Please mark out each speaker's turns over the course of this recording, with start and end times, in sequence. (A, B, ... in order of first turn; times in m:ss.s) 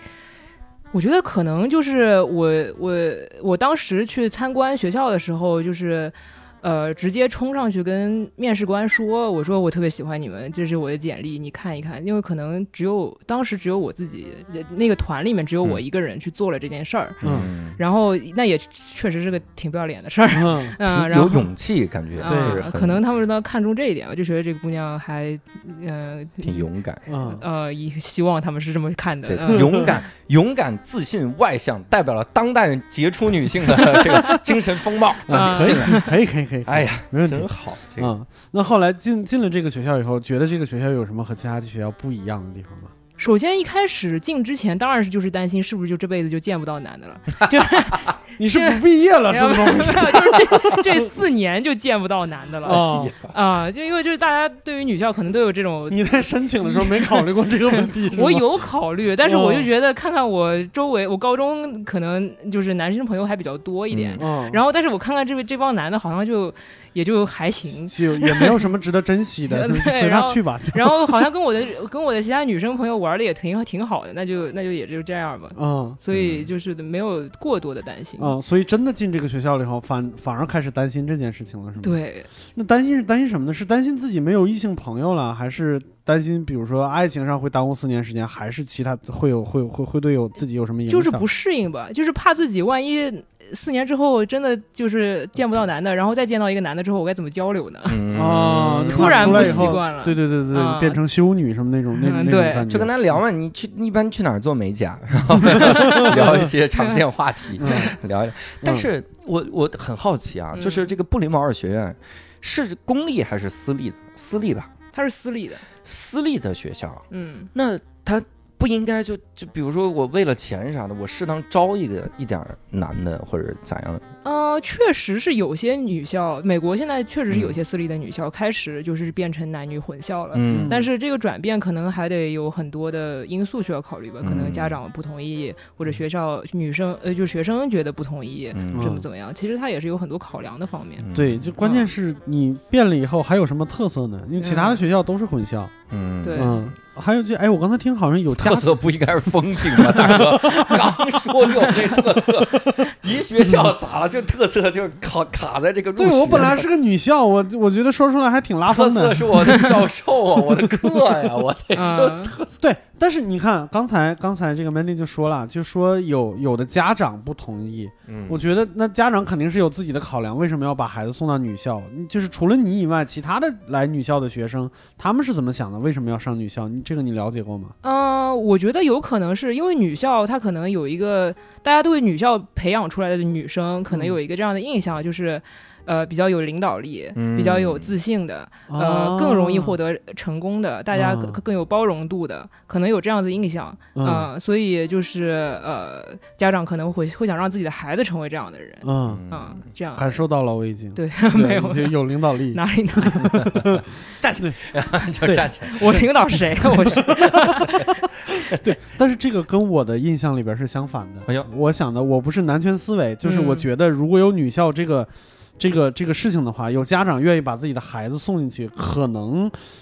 0:00.9-0:17.2 A
0:17.2-0:17.8 B
0:17.2-0:17.5 C
0:17.8-0:21.5 A
0:20.3-0:20.8 C
0:20.8-0:23.0 B
0:22.2-0:29.9 A
0:22.3-0:22.6 C
0:26.4-0:27.0 B
0:27.1-0:27.4 C
0:29.3-0:36.1 B
0:29.5-0:29.9 C
0:35.3-0:42.9 C
0:35.3-0:36.1 A
0:36.7-0:38.1 B
0:43.2-0:57.3 A
0:48.4-0:50.8 C
0:52.6-0:53.1 C
0:52.8-0:53.3 B
0:55.9-0:58.5 C
0:58.1-1:08.7 A
0:59.2-0:59.7 C
1:03.9-1:04.2 B
1:04.2-1:04.6 C
1:07.9-1:11.3 C
1:09.5-1:18.4 A
1:15.6-1:16.0 C
1:16.1-1:16.5 B
1:18.2-1:22.0 C
1:21.8-1:22.3 A
1:22.5-1:31.2 C
1:30.9-1:38.0 A
1:37.9-1:39.8 B
1:38.1-1:43.0 C
1:38.9-1:41.0 A
1:42.0-1:42.7 A
1:42.6-1:54.7 B
1:45.4-1:46.5 C
1:45.5-1:46.2 A
1:47.6-1:48.0 C
1:48.6-1:48.9 C
1:50.6-1:50.9 A
1:54.9-1:55.6 A
1:55.8-2:04.0 B
1:57.1-1:57.5 A
2:04.2-2:21.1 A
2:07.3-2:07.6 B
2:10.3-2:10.8 B
2:10.5-2:10.9 C
2:14.2-2:14.8 B
2:18.5-2:19.0 B
2:18.7-2:19.1 C
2:21.0-2:21.5 B
2:21.1-2:25.7 C
2:21.6-2:21.9 A
2:24.4-2:24.8 A
2:25.9-2:26.7 B
2:26.2-2:26.6 A
2:26.4-2:28.7 C
2:28.4-2:36.7 B
2:29.8-2:30.9 C
2:30.1-2:30.8 A
2:31.6-2:32.0 A
2:36.0-2:39.7 C
2:38.7-2:42.5 B
2:40.7-2:41.2 C
2:41.7-2:42.4 A
2:42.6-2:57.8 C
2:48.1-2:48.4 B
2:57.8-3:20.2 A
3:03.9-3:04.2 C
3:07.2-3:07.9 B
3:08.7-3:09.8 C
3:10.9-3:11.4 C
3:14.0-3:14.3 C
3:18.8-3:19.2 C
3:19.1-3:19.6 B
3:20.0-3:23.8 C
3:21.0-3:23.4 A
3:23.4-3:26.0 B
3:25.2-3:25.5 C
3:25.6-3:28.0 A
3:27.3-3:27.9 B
3:28.5-3:39.6 C
3:33.2-3:33.7 A